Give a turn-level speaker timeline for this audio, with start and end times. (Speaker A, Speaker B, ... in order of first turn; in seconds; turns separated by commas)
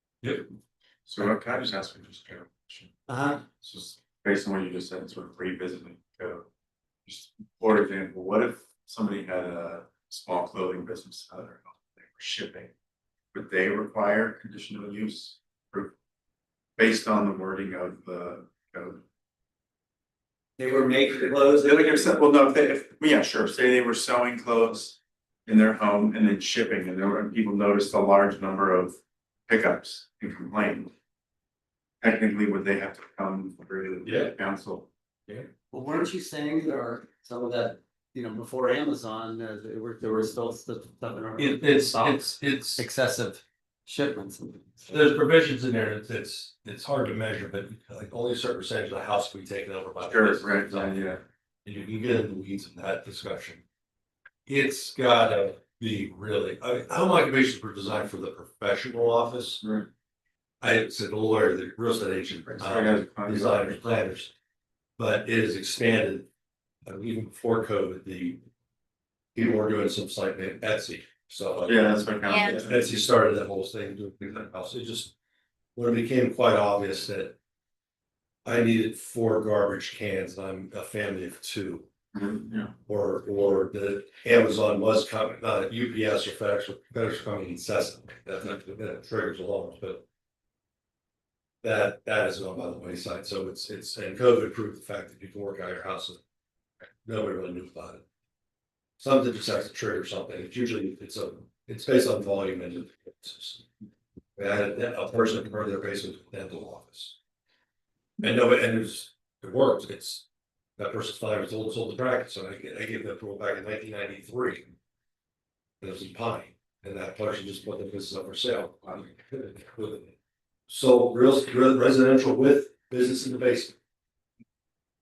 Speaker A: 0.2-0.5, Speaker B: 1.1-3.0, Speaker C: 3.1-3.5, Speaker B: 3.6-6.5, Speaker B: 7.1-12.7, Speaker B: 13.3-15.9, Speaker B: 16.8-19.0, Speaker C: 20.6-22.1, Speaker B: 21.6-29.0, Speaker B: 29.5-30.9, Speaker B: 32.0-34.9, Speaker A: 34.0-34.3, Speaker C: 35.7-44.7, Speaker A: 41.4-42.9, Speaker A: 44.9-53.6, Speaker B: 50.0-51.2, Speaker A: 54.5-59.6, Speaker B: 59.6-59.9, Speaker A: 60.6-64.3, Speaker B: 62.5-63.8, Speaker A: 65.0-66.3, Speaker A: 66.9-68.4, Speaker A: 69.3-75.1, Speaker B: 71.7-73.0, Speaker A: 75.8-77.4, Speaker A: 78.5-81.9, Speaker B: 82.1-82.7, Speaker A: 82.9-90.0, Speaker A: 91.6-96.2, Speaker A: 97.0-98.0, Speaker A: 99.0-103.7, Speaker A: 104.4-107.2, Speaker A: 108.2-110.3, Speaker A: 110.8-114.7, Speaker A: 115.8-120.2, Speaker A: 120.7-123.8